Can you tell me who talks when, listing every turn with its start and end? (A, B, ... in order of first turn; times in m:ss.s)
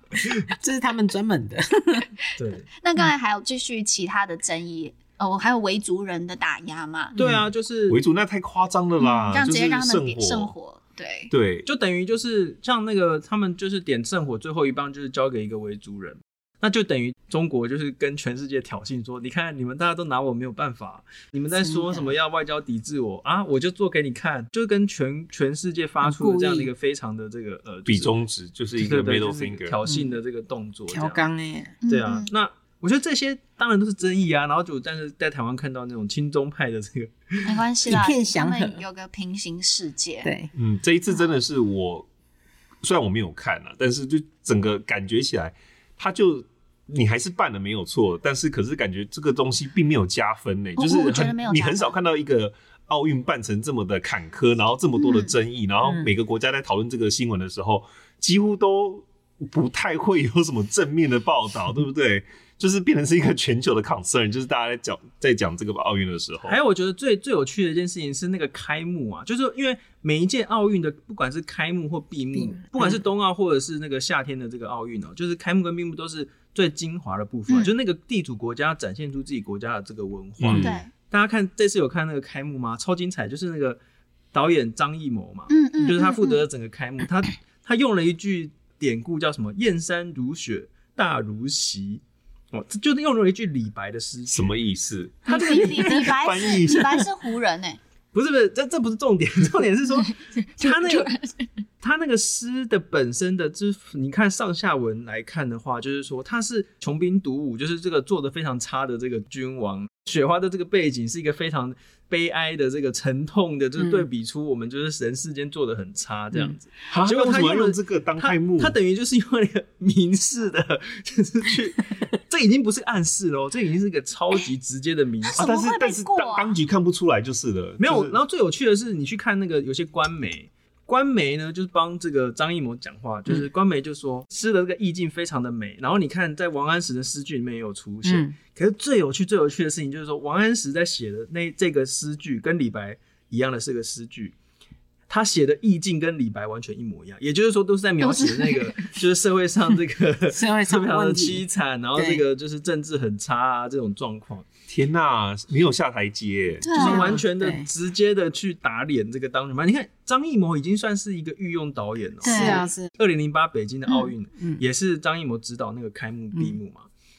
0:00.4-0:02.1 A
0:02.4-0:02.7 B
0:02.8-0:07.2 C
0:07.2-0:08.0 B
0:07.2-0:07.4 A
0:07.9-0:10.5 D
0:09.0-0:11.3 C
0:11.3-0:11.7 D
0:11.7-0:28.1 B
0:21.6-0:22.1 A
0:26.0-0:26.7 A
0:27.9-0:29.8 D
0:28.8-0:31.2 B
0:30.9-0:31.8 A
0:31.8-0:32.3 C
0:31.9-0:37.4 B
0:37.4-0:40.3 C
0:37.9-0:38.8 A
0:40.2-0:40.5 A
0:40.5-0:42.1 D
0:42.8-1:06.6 D
0:50.8-0:52.0 C
0:55.0-0:55.3 C
1:06.5-1:23.8 B
1:20.4-1:20.7 D
1:20.6-1:20.9 C
1:24.3-1:32.0 B
1:25.5-1:26.4 C
1:32.5-1:34.5 B
1:34.3-1:37.1 D
1:35.3-1:37.8 C
1:35.3-1:36.0 B
1:38.1-1:41.1 B
1:40.1-1:41.5 C
1:41.8-2:05.4 B
1:53.8-1:54.0 A
1:56.9-1:58.8 D
2:05.3-2:06.6 C
2:05.4-2:08.2 D
2:07.8-2:24.3 B
2:18.0-2:18.3 A
2:25.1-2:34.4 B
2:28.0-2:28.8 C
2:30.3-2:31.4 A
2:32.0-2:32.2 A
2:34.7-2:37.0 D
2:36.6-2:37.1 C
2:36.8-2:46.9 B
2:36.8-2:37.7 A
2:42.2-2:42.6 C
2:42.2-2:42.9 A